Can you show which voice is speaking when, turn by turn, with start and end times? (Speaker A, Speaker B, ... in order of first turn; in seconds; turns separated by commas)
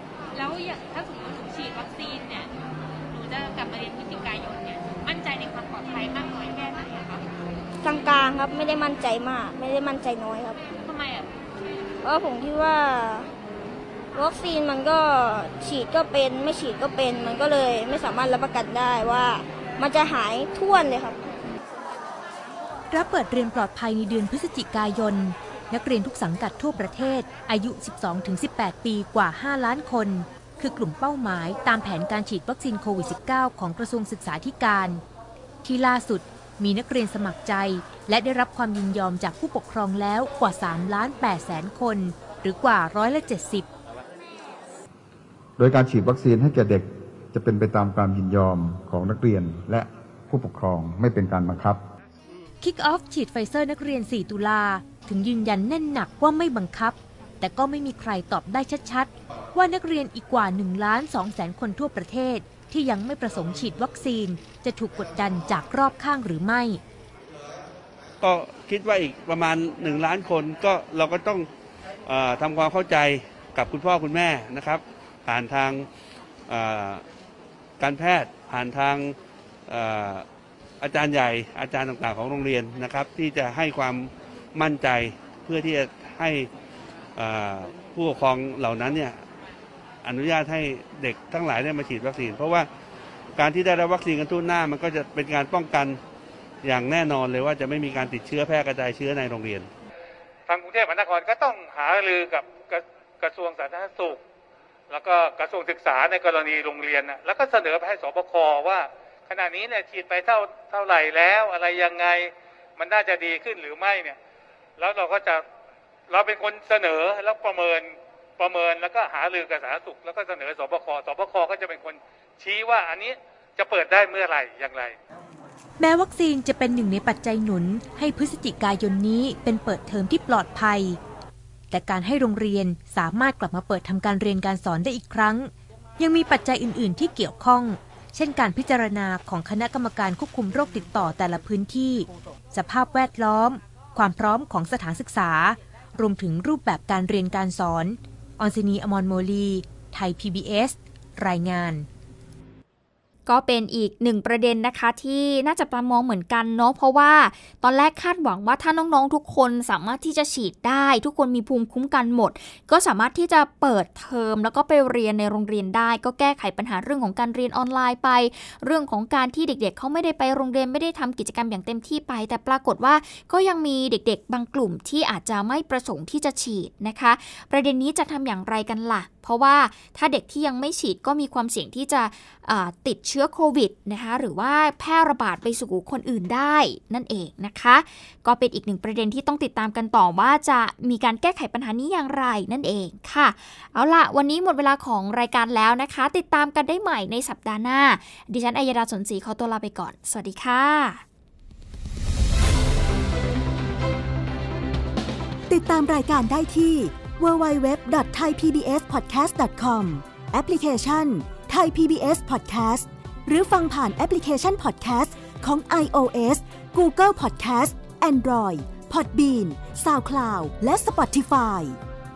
Speaker A: 0.3-2.5, Speaker A: 3.1-7.2, Speaker B: 7.8-10.6, Speaker A: 10.7-11.5, Speaker B: 12.0-13.3, Speaker B: 14.2-21.3, Speaker C: 22.9-35.0, Speaker C: 35.6-43.7, Speaker D: 45.6-51.8, Speaker C: 52.6-66.8, Speaker E: 68.2-71.5, Speaker E: 72.1-75.9, Speaker E: 76.5-77.0, Speaker E: 77.8-79.2, Speaker E: 79.7-80.3, Speaker E: 80.8-86.5, Speaker E: 87.2-89.2, Speaker E: 90.0-92.7, Speaker E: 93.4-96.0, Speaker E: 96.6-99.7, Speaker F: 100.5-104.2, Speaker F: 104.9-114.2, Speaker F: 114.8-115.5, Speaker F: 116.1-125.0, Speaker C: 125.8-131.0, Speaker C: 131.7-151.9, Speaker G: 153.3-201.0, Speaker H: 205.5-221.8